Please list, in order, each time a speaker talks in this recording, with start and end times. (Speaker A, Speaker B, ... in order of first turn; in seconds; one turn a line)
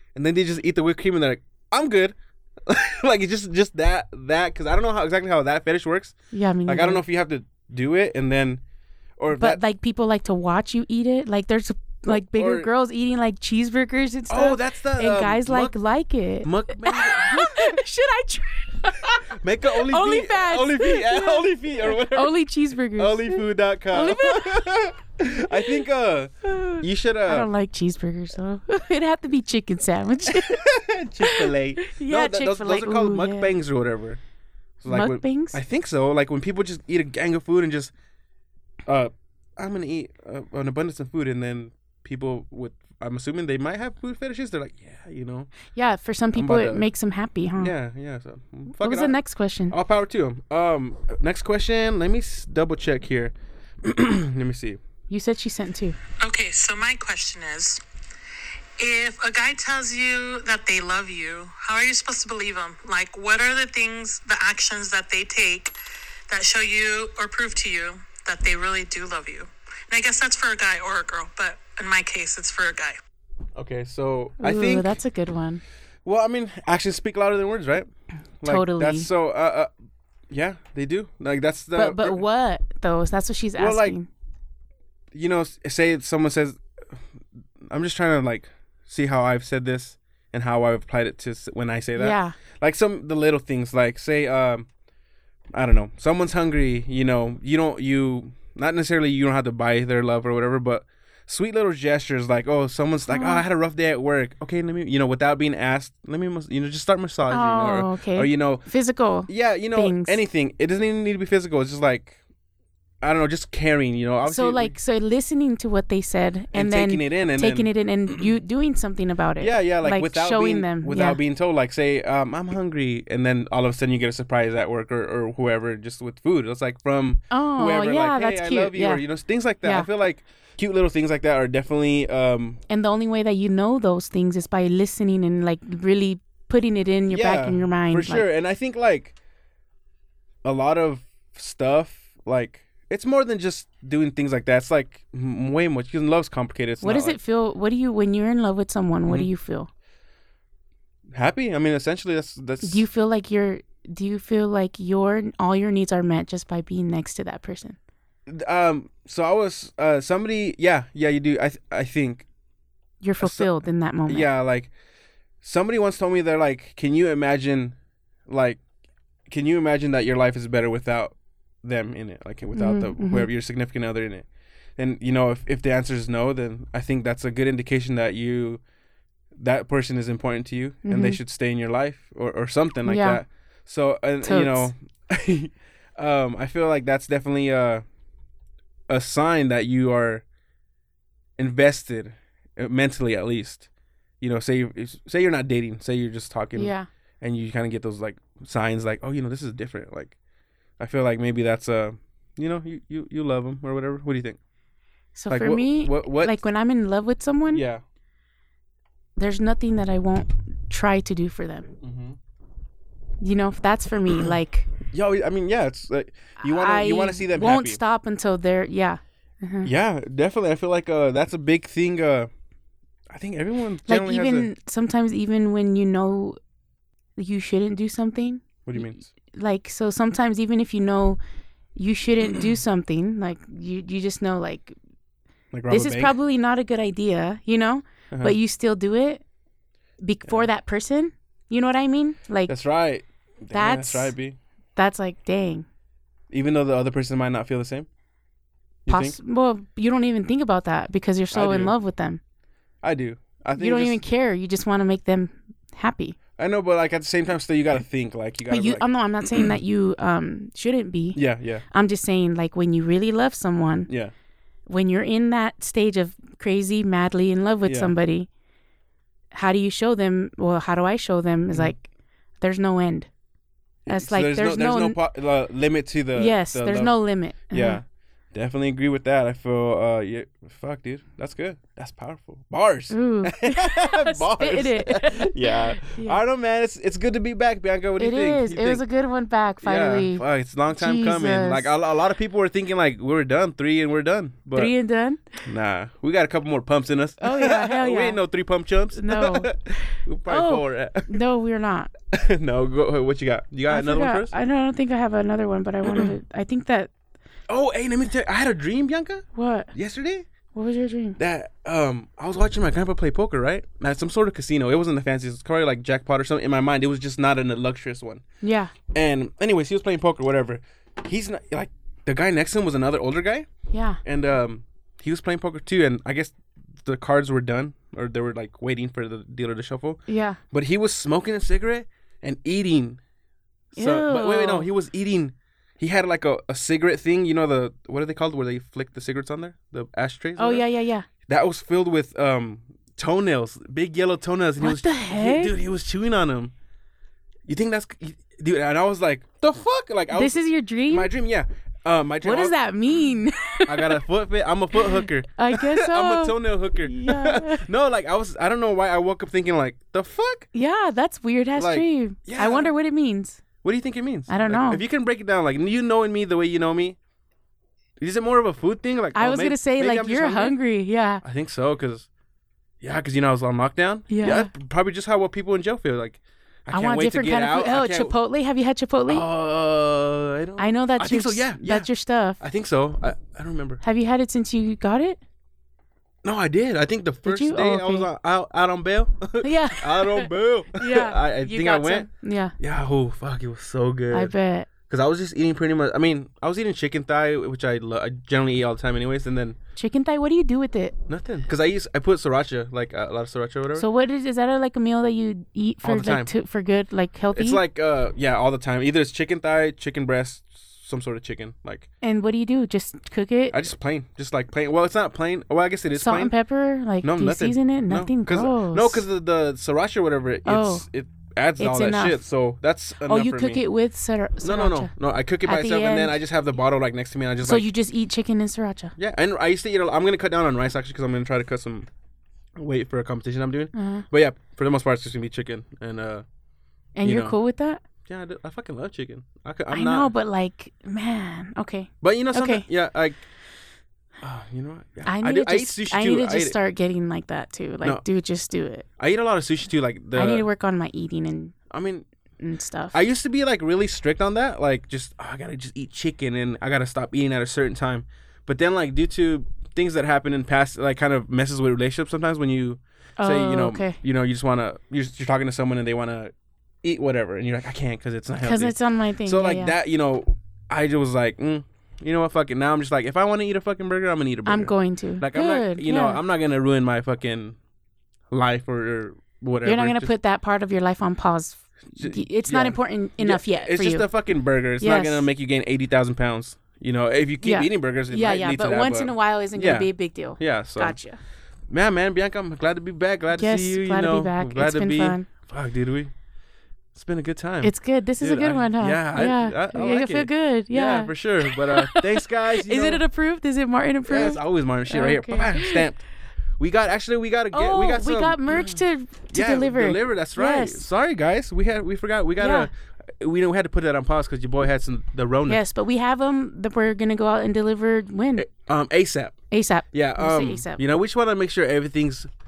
Speaker A: 0.1-6.1
Speaker B: 6.3-7.0
Speaker A: 6.7-8.6
Speaker A: 9.2-9.6
Speaker B: 9.3-24.8
Speaker A: 12.1-12.7
Speaker A: 14.3-15.7
Speaker A: 16.4-17.8
Speaker A: 19.2-22.3
Speaker A: 23.0-27.5
Speaker B: 25.5-25.8
Speaker B: 26.4-30.6
Speaker A: 30.3-34.2
Speaker B: 31.2-33.5
Speaker A: 34.8-37.9
Speaker B: 34.9-35.6
Speaker A: 38.9-45.5
Speaker B: 45.7-47.7
Speaker A: 46.3-46.9
Speaker A: 47.6-49.1
Speaker B: 48.7-49.7
Speaker A: 49.7-54.8
Speaker B: 55.1-56.0
Speaker C: 56.2-57.8
Speaker C: 58.8-65.8
Speaker C: 66.3-73.0
Speaker A: 73.5-75.0
Speaker B: 74.4-75.6
Speaker A: 76.0-77.9
Speaker A: 78.4-79.7
Speaker B: 78.4-79.1
Speaker A: 80.3-82.2
Speaker B: 81.7-84.1
Speaker A: 83.6-84.0
Speaker A: 85.1-87.0
Speaker A: 87.6-94.7
Speaker B: 92.0-92.3
Speaker A: 95.5-108.7
Speaker B: 103.1-103.4
Speaker B: 107.3-110.2
Speaker A: 109.3-112.2
Speaker A: 113.0-114.8
Speaker B: 114.2-121.2
Speaker A: 116.5-118.3
Speaker A: 119.4-132.6
Speaker B: 127.3-129.0
Speaker B: 129.6-129.9
Speaker B: 132.7-138.2
Speaker A: 137.1-139.1
Speaker A: 140.4-147.2
Speaker B: 146.8-149.7
Speaker A: 151.1-152.8
Speaker B: 152.6-157.8
Speaker A: 158.2-162.2
Speaker B: 163.0-164.3
Speaker A: 163.2-163.5
Speaker A: 164.1-164.7
Speaker A: 165.4-167.7
Speaker A: 168.3-168.6
Speaker A: 169.3-174.2
Speaker B: 172.5-173.3
Speaker A: 174.8-178.6
Speaker A: 179.3-187.8
Speaker B: 180.8-181.2
Speaker B: 182.8-183.2
Speaker B: 184.2-184.7
Speaker A: 188.9-190.2
Speaker A: 191.4-193.7
Speaker A: 194.2-200.1
Speaker B: 196.6-196.9
Speaker A: 200.8-204.4
Speaker B: 205.1-207.6
Speaker A: 205.3-206.4
Speaker A: 207.5-207.8
Speaker B: 209.2-211.7
Speaker A: 211.8-212.2
Speaker B: 213.2-214.7
Speaker A: 214.9-217.8
Speaker B: 216.4-219.7
Speaker A: 219.6-222.3
Speaker A: 223.1-224.5
Speaker B: 223.9-226.4
Speaker B: 227.2-228.8
Speaker A: 228.6-229.1
Speaker B: 229.3-231.2
Speaker B: 231.7-234.7
Speaker A: 235.5-236.1
Speaker B: 235.7-239.2
Speaker B: 240.0-242.5
Speaker A: 242.5-244.4
Speaker B: 243.5-244.1
Speaker B: 244.8-245.7
Speaker A: 246.3-247.9
Speaker A: 248.8-249.2
Speaker B: 248.9-252.2
Speaker A: 251.3-251.7
Speaker A: 252.8-254.0
Speaker B: 253.6-256.2
Speaker A: 256.4-258.9
Speaker B: 258.5-261.2
Speaker A: 261.1-261.6
Speaker B: 261.7-263.9
Speaker A: 263.9-264.1
Speaker B: 264.7-268.3
Speaker A: 267.6-267.9
Speaker B: 269.3-271.9
Speaker B: 272.4-273.1
Speaker A: 273.9-276.9
Speaker B: 273.9-275.0
Speaker B: 276.1-277.8
Speaker A: 277.5-288.8
Speaker B: 282.9-286.2
Speaker B: 288.0-291.7
Speaker A: 289.6-294.7
Speaker B: 294.5-295.4
Speaker A: 295.4-301.1
Speaker B: 297.2-298.2
Speaker B: 298.9-301.9
Speaker A: 302.1-304.3
Speaker B: 303.7-306.9
Speaker A: 305.9-306.1
Speaker A: 307.5-310.2
Speaker B: 309.3-309.7
Speaker B: 310.5-311.2
Speaker A: 311.2-318.2
Speaker B: 318.4-318.7
Speaker A: 318.9-323.5
Speaker B: 323.7-324.0
Speaker A: 324.0-330.0
Speaker B: 330.1-330.4
Speaker A: 330.5-333.0
Speaker A: 333.7-340.6
Speaker B: 333.8-334.7
Speaker B: 340.4-341.1
Speaker A: 341.3-346.5
Speaker B: 344.6-345.5
Speaker A: 347.4-352.5
Speaker B: 350.1-351.1
Speaker B: 352.2-354.0
Speaker A: 353.6-360.5
Speaker B: 354.8-357.6
Speaker B: 360.5-363.4
Speaker A: 361.6-362.7
Speaker A: 363.6-367.0
Speaker B: 364.3-364.8
Speaker A: 368.0-370.6
Speaker B: 369.1-371.2
Speaker A: 371.2-372.1
Speaker A: 372.8-378.1
Speaker B: 374.1-374.5
Speaker B: 376.7-379.2
Speaker A: 379.1-381.9
Speaker B: 380.6-382.4
Speaker A: 382.4-383.8
Speaker B: 383.8-385.2
Speaker A: 386.2-399.6
Speaker B: 387.2-388.1
Speaker B: 389.4-392.5
Speaker B: 394.1-394.7
Speaker B: 399.8-400.9
Speaker A: 401.1-403.9
Speaker B: 403.7-407.6
Speaker A: 405.8-406.3
Speaker A: 407.3-411.9
Speaker B: 412.0-413.6
Speaker A: 413.5-416.3
Speaker B: 415.9-419.0
Speaker A: 417.0-423.6
Speaker B: 420.4-420.8
Speaker B: 421.6-422.2
Speaker B: 423.1-424.9
Speaker A: 424.4-427.7
Speaker B: 425.4-426.1
Speaker B: 427.4-428.9
Speaker A: 429.0-431.9
Speaker A: 432.6-436.2
Speaker B: 433.7-434.1
Speaker B: 436.9-437.8
Speaker A: 437.0-437.4
Speaker A: 438.1-440.1
Speaker B: 439.7-442.6
Speaker A: 442.0-443.2
Speaker A: 444.2-446.6
Speaker B: 445.1-448.9
Speaker A: 449.0-450.4
Speaker B: 450.1-451.5
Speaker A: 451.7-452.1
Speaker B: 452.4-453.0
Speaker A: 452.9-477.6
Speaker B: 463.2-464.0
Speaker B: 468.4-469.8
Speaker B: 474.4-476.2
Speaker A: 478.3-480.1
Speaker B: 479.6-484.1
Speaker A: 481.9-491.0
Speaker B: 484.8-485.2
Speaker B: 487.4-491.2
Speaker A: 491.7-496.1
Speaker B: 493.3-495.3
Speaker A: 496.9-503.0
Speaker B: 497.6-505.8
Speaker A: 504.1-506.0
Speaker A: 506.6-515.6
Speaker B: 507.5-510.9
Speaker B: 512.4-512.7
Speaker B: 515.5-518.5
Speaker A: 518.4-519.4
Speaker B: 519.5-520.8
Speaker A: 519.9-522.3